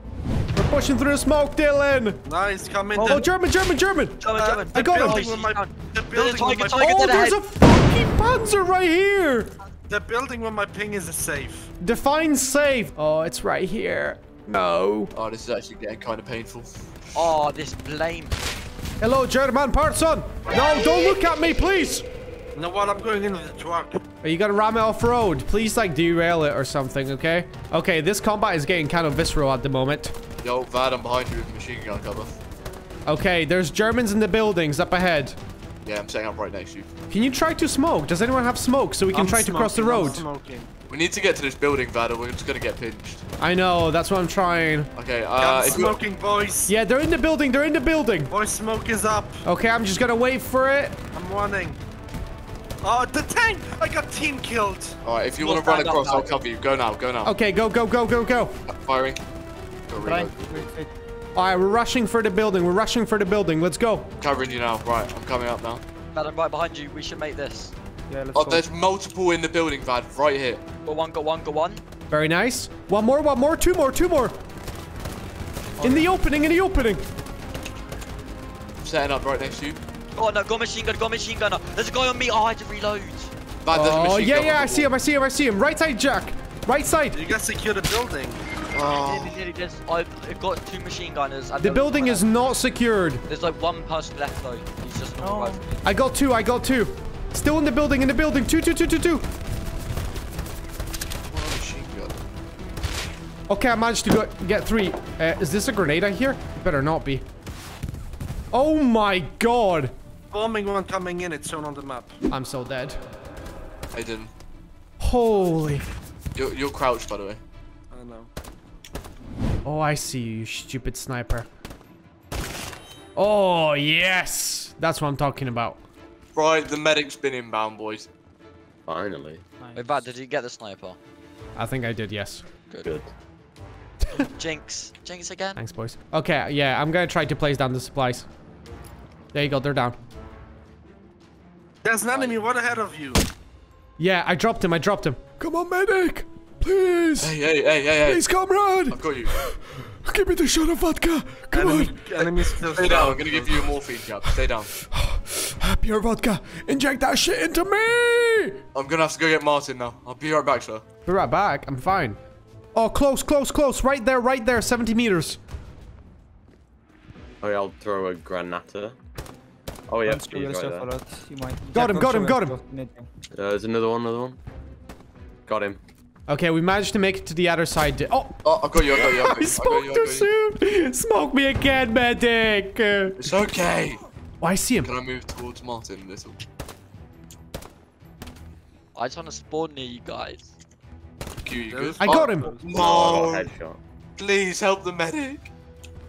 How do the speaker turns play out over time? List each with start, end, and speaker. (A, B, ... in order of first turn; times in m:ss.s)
0:00.5-0:02.2 A
0:02.2-0:03.2 B
0:02.9-0:03.3 C
0:03.0-0:05.2 A
0:04.2-0:07.4 D
0:04.3-0:06.8 B
0:06.8-0:09.5 A
0:09.9-0:11.7 B
0:11.8-0:15.1 A
0:15.1-0:17.4 E
0:17.1-0:18.4 D
0:19.0-0:22.0 A
0:22.5-0:24.0 B
0:24.2-0:30.1 A
0:30.4-0:32.4 E
0:33.1-0:35.4 A
0:35.8-0:36.9 E
0:37.1-0:40.2 A
0:39.1-0:40.7 B
0:40.9-0:43.2 E
0:43.4-0:44.9 A
0:44.9-0:46.0 E
0:45.4-0:46.7 B
0:46.7-0:48.3 A
0:48.3-0:49.4 B
0:49.4-0:51.0 A
0:51.1-0:51.8 B
0:52.8-0:55.0 B
0:55.0-0:57.3 E
0:55.4-0:56.4 D
0:57.2-0:58.5 A
0:58.7-0:59.2 E
0:59.9-1:00.4 E
1:00.0-1:00.9 C
1:01.3-1:04.1 A
1:04.2-1:05.8 E
1:06.1-1:07.7 D
1:08.1-1:08.7 C
1:08.3-1:10.6 E
1:10.8-1:11.8 D
1:12.1-1:14.4 A
1:15.8-1:16.2 C
1:15.8-1:17.0 A
1:18.8-1:19.8 E
1:20.1-1:23.3 D
1:23.6-1:24.9 E
1:23.7-1:27.2 A
1:27.1-1:28.4 B
1:28.7-1:29.4 E
1:29.0-1:32.3 D
1:31.6-1:33.2 A
1:33.3-1:35.6 D
1:35.2-1:35.8 C
1:35.8-1:39.2 A
1:41.3-1:42.2 E
1:43.5-1:47.2 A
1:48.5-1:49.9 A
1:50.3-1:52.2 B
1:52.3-1:53.0 A
1:53.9-1:54.3 E
1:55.0-1:55.8 A
1:56.3-1:57.4 E
1:57.9-1:58.3 B
1:59.6-2:01.5 A
2:03.2-2:05.8 A
2:06.3-2:08.1 E
2:08.8-2:09.4 F
2:09.6-2:10.1 C
2:09.7-2:11.0 D
2:11.6-2:12.4 A
2:12.7-2:12.9 D
2:12.8-2:13.1 F
2:14.1-2:15.6 D
2:15.6-2:18.3 A
2:19.3-2:20.0 A
2:21.8-2:23.2 B
2:22.1-2:22.4 D
2:24.0-2:27.4 A
2:27.2-2:28.2 E
2:28.0-2:32.6 A
2:28.9-2:29.3 E
2:31.5-2:33.5 B
2:32.7-2:34.7 E
2:34.8-2:38.6 A
2:38.7-2:40.8 E
2:41.0-2:42.2 A
2:42.7-2:45.4 A
2:47.4-2:49.0 F
2:49.9-2:50.9 F
2:50.0-2:53.1 C
2:51.7-2:52.6 A
2:53.3-2:54.4 F
2:55.4-2:55.8 F
2:56.3-3:03.3 A
2:58.4-3:00.3 E
3:03.2-3:04.0 E
3:04.4-3:04.9 A
3:04.8-3:06.4 E
3:08.9-3:10.5 D
3:11.4-3:13.5 E
3:11.7-3:12.7 B
3:12.0-3:12.5 A
3:12.7-3:13.8 F
3:14.2-3:15.5 E